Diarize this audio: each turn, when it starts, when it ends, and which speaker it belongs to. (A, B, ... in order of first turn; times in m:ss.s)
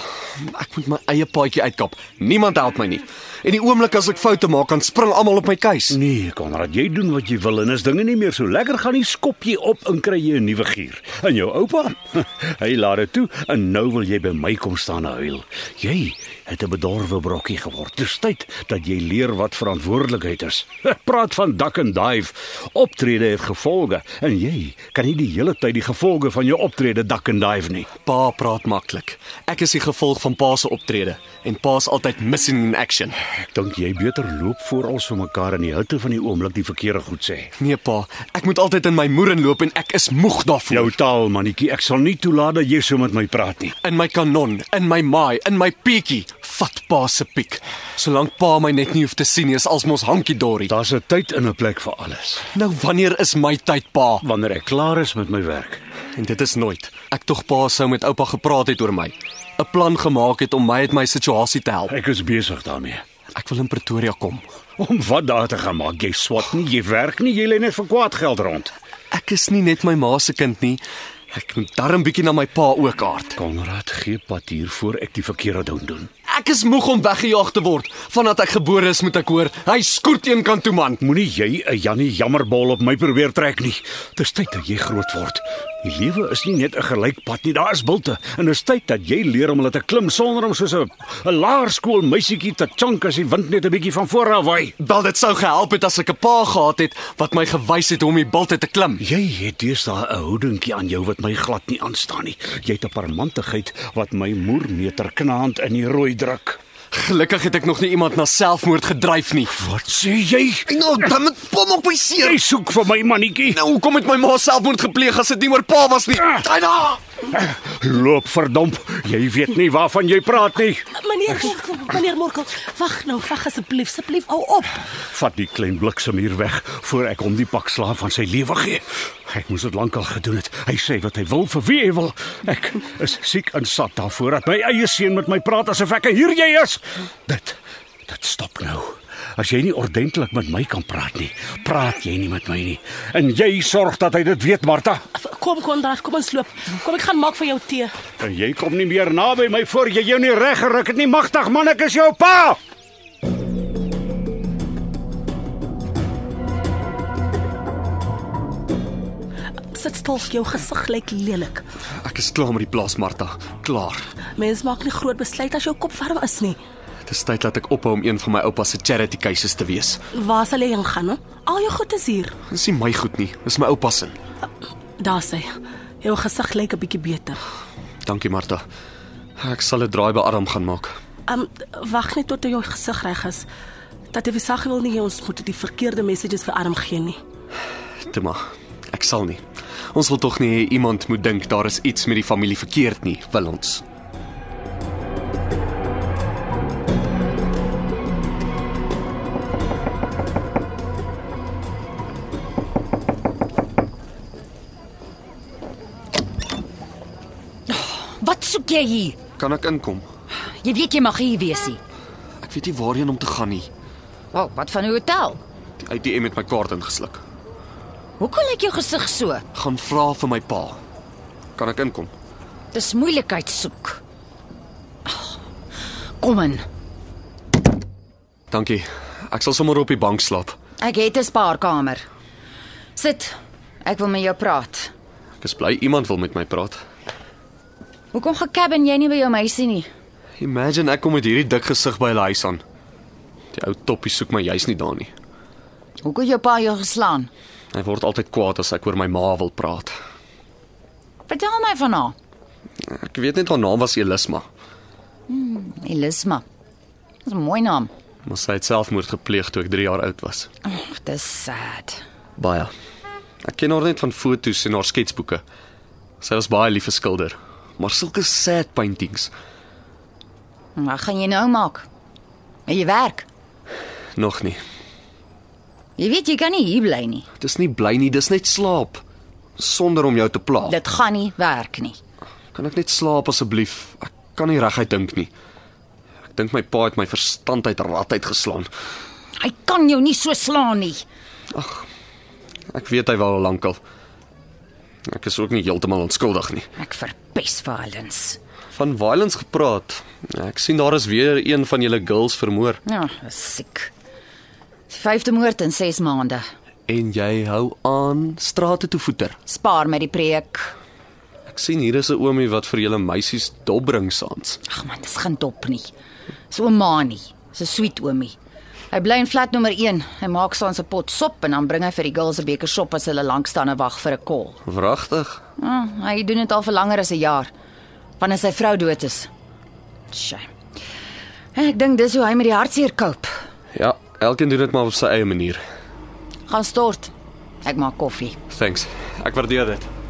0:00.4-0:06.0 A
0:05.9-0:27.9 B
0:28.0-0:33.2 A
0:33.5-0:37.5 B
0:37.6-0:40.9 A
0:40.7-0:43.8 B
0:43.8-0:50.7 A
0:50.7-0:52.5 B
0:52.5-0:54.2 A
0:54.2-0:55.8 B
0:56.2-1:01.9 A
1:01.9-1:03.0 B
1:03.4-1:04.5 A
1:04.8-1:08.7 B
1:09.1-1:13.4 A
1:13.4-1:16.1 B
1:16.3-1:21.0 A
1:21.0-1:34.8 B
1:34.8-1:39.0 A
1:39.0-1:46.6 B
1:46.9-1:49.6 A
1:49.6-1:50.7 B
1:50.7-1:52.4 A
1:52.2-1:53.6 B
1:53.5-1:57.0 A
1:57.3-2:00.8 B
2:01.0-2:04.8 C
2:05.1-2:25.0 B
2:25.2-2:27.9 C
2:28.2-2:32.6 B
2:39.7-2:41.6 C
2:42.0-2:44.0 A
2:44.4-2:46.6 C
2:47.1-2:50.0 A
2:50.1-2:52.4 C
2:52.5-2:54.2 A
2:55.0-2:57.4 C
2:58.0-2:58.6 A
2:59.4-3:01.0 A
3:01.3-3:03.5 C
3:04.1-3:07.2 C
3:08.0-3:13.8 A
3:27.7-3:29.2 D
3:29.4-3:30.1 A
3:30.4-3:31.8 D
3:32.4-3:33.7 A
3:34.3-3:35.4 D
3:35.8-3:37.2 A
3:38.2-3:39.4 D
3:39.5-3:40.8 A
3:41.6-3:42.1 A
3:42.7-3:44.0 D
3:45.1-3:45.4 D
3:46.2-3:46.6 D
3:48.5-3:50.6 A
3:50.8-3:52.1 D
3:53.0-3:53.3 D
3:53.8-3:54.9 D
3:55.4-3:56.8 A
3:58.1-3:59.9 D
4:00.4-4:02.6 A
4:03.5-4:05.1 A
4:06.0-4:07.3 D
4:07.7-4:10.0 A
4:11.3-4:12.1 D
4:12.8-4:14.5 A
4:15.3-4:16.4 D
4:17.2-4:17.9 D
4:18.2-4:20.5 A
4:20.6-4:22.0 D
4:22.4-4:22.7 A
4:23.4-4:25.4 A
4:26.2-4:29.3 A
4:30.8-4:31.9 D
4:32.7-4:33.3 D
4:34.2-4:34.6 A
4:36.0-4:37.2 D
4:37.4-4:39.0 A
4:39.6-4:40.8 A
4:40.7-4:42.0 D
4:42.5-4:45.3 A
4:46.3-4:48.7 A
4:49.4-4:51.0 D
4:51.5-4:51.9 A
4:52.7-4:53.8 A
4:55.1-4:56.7 A
4:56.8-4:58.4 D
4:58.7-5:02.8 A
5:02.9-5:03.9 D
5:04.9-5:06.4 D
5:06.9-5:09.4 A
5:09.5-5:10.7 D
5:11.5-5:14.6 A
5:14.7-5:15.9 D
5:16.5-5:18.3 D
5:18.9-5:24.6 D
5:24.6-5:25.4 A
5:25.6-5:27.5 D
5:28.2-5:29.3 D
5:30.1-5:30.5 D
5:31.6-5:33.3 D
5:33.7-5:35.6 A
5:36.5-5:37.1 D
5:37.6-5:38.4 D
5:38.5-5:39.9 A